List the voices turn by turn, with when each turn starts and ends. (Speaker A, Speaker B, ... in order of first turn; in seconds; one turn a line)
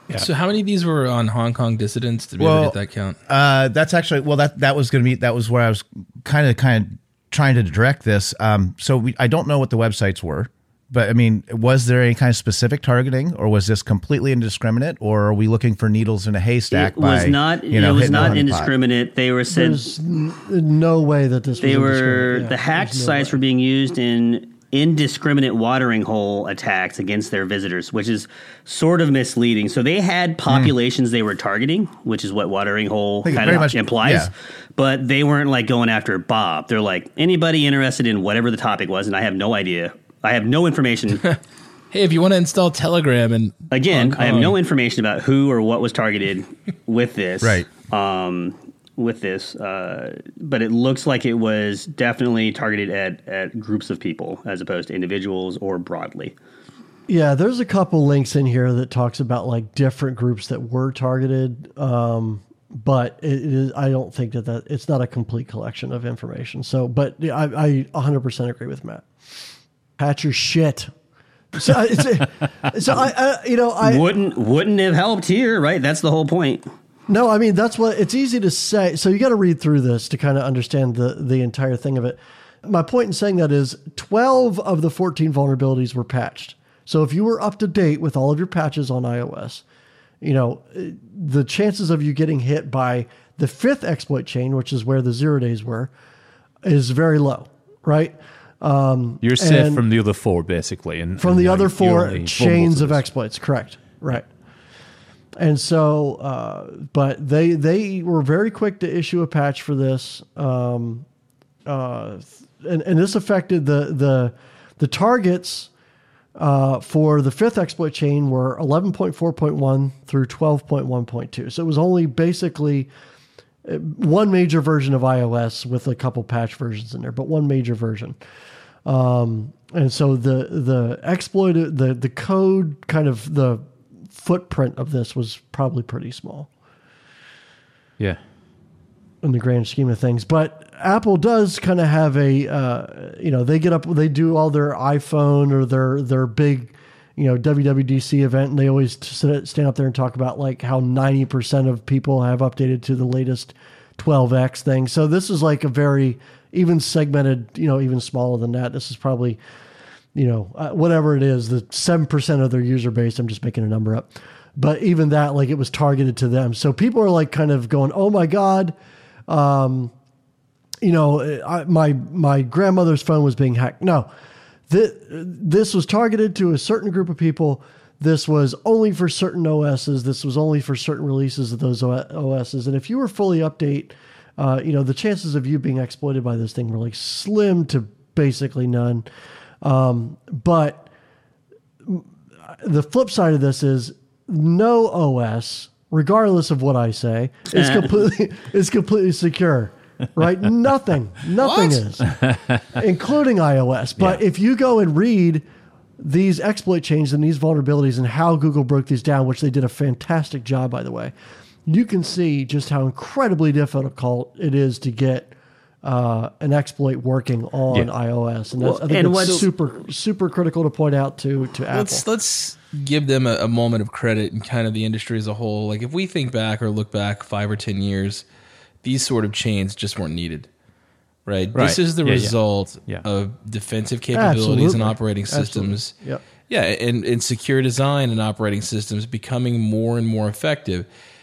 Speaker A: 0.1-3.1
Speaker B: 2.4-18.7
Speaker C: 16.7-19.9
Speaker D: 19.5-23.4
Speaker C: 21.6-41.2
Speaker B: 33.2-34.3
Speaker A: 41.9-44.5
Speaker C: 43.7-56.3
Speaker B: 47.4-47.7
Speaker D: 57.1-69.0
Speaker D: 70.0-70.9
Speaker D: 71.5-74.1
Speaker C: 73.8-76.6
Speaker D: 77.1-89.6
Speaker D: 90.2-95.9
Speaker D: 96.6-99.8
Speaker E: 99.2-103.1
Speaker D: 101.2-104.2
Speaker D: 105.4-111.0
Speaker D: 111.7-115.7
Speaker D: 116.4-122.9
Speaker D: 123.6-128.2
Speaker D: 128.8-136.5
Speaker D: 139.2-159.4
Speaker D: 160.1-168.7
Speaker D: 169.3-169.9
Speaker D: 170.8-174.1
Speaker D: 174.7-189.0
Speaker D: 189.6-190.9
Speaker D: 191.8-205.4
Speaker C: 197.5-197.9
Speaker E: 202.1-202.6
Speaker D: 206.0-211.1
Speaker D: 211.7-222.0
Speaker C: 218.6-219.5
Speaker A: 221.7-228.2
Speaker A: 228.8-230.5
Speaker A: 231.2-235.9
Speaker E: 231.5-233.1
Speaker D: 234.1-236.2
Speaker A: 236.5-240.9